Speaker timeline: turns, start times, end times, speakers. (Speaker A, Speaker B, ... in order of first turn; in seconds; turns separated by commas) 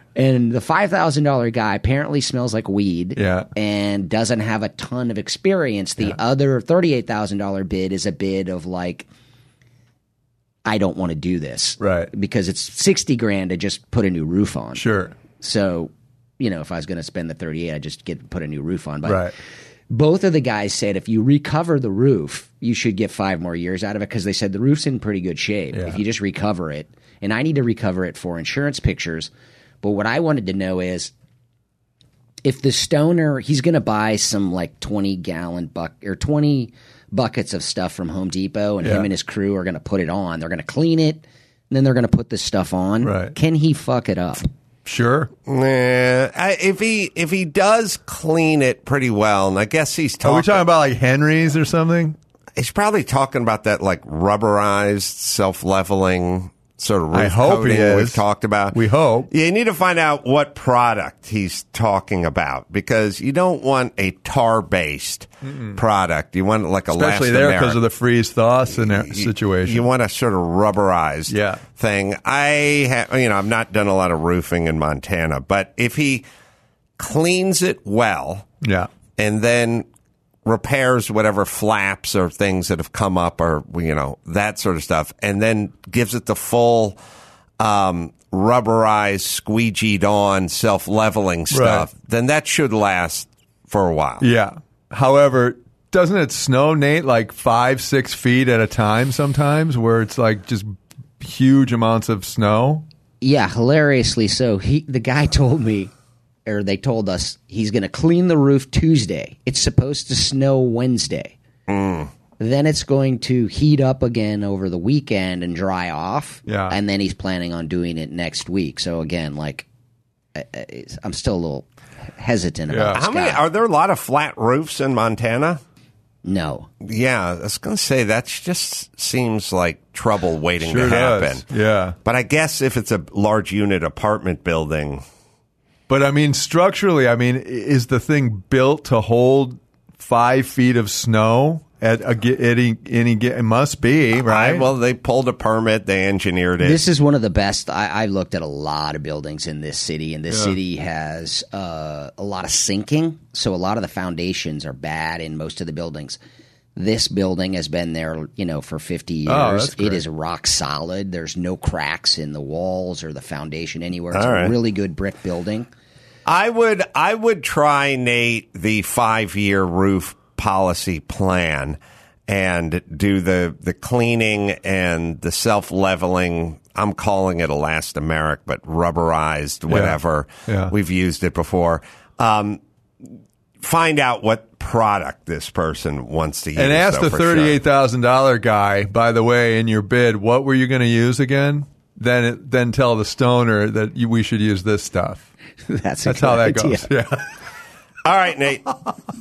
Speaker A: 0.1-9.1, Speaker B: 3.2-3.5, Speaker A: 10.7-14.8, Speaker B: 11.8-12.1, Speaker B: 14.8-15.1, Speaker A: 15.4-19.3, Speaker B: 19.1-19.3, Speaker A: 19.9-29.3, Speaker B: 25.7-26.0, Speaker A: 29.8-31.1, Speaker A: 32.4-44.5, Speaker B: 38.8-39.1, Speaker B: 43.0-43.3, Speaker B: 44.9-45.3, Speaker C: 45.5-50.6, Speaker B: 50.2-52.2, Speaker C: 52.6-67.8, Speaker B: 57.1-58.2, Speaker B: 58.7-59.3, Speaker B: 65.4-65.8, Speaker B: 66.9-69.8, Speaker C: 68.7-76.3, Speaker B: 71.3-71.6, Speaker C: 77.0-78.5, Speaker B: 78.6-78.9, Speaker C: 79.2-79.9, Speaker C: 80.5-87.0, Speaker C: 87.6-94.3, Speaker B: 91.5-91.9, Speaker B: 94.2-102.9, Speaker A: 103.2-105.9, Speaker A: 106.5-111.3, Speaker C: 111.7-112.1, Speaker A: 112.4-119.7, Speaker B: 116.5-116.8, Speaker A: 120.3-123.4, Speaker B: 122.7-123.0, Speaker C: 122.9-125.6, Speaker A: 126.2-126.7, Speaker C: 126.8-131.4, Speaker B: 130.6-132.0, Speaker C: 132.1-135.0, Speaker B: 135.9-144.7, Speaker C: 144.2-146.8, Speaker A: 146.6-156.2, Speaker B: 150.3-150.6, Speaker A: 156.8-165.7, Speaker B: 159.3-160.0, Speaker C: 164.1-164.5, Speaker C: 166.3-183.1, Speaker B: 179.7-180.7, Speaker C: 183.6-187.6, Speaker B: 186.6-195.2, Speaker A: 195.7-196.9, Speaker B: 196.1-197.3, Speaker C: 198.0-198.7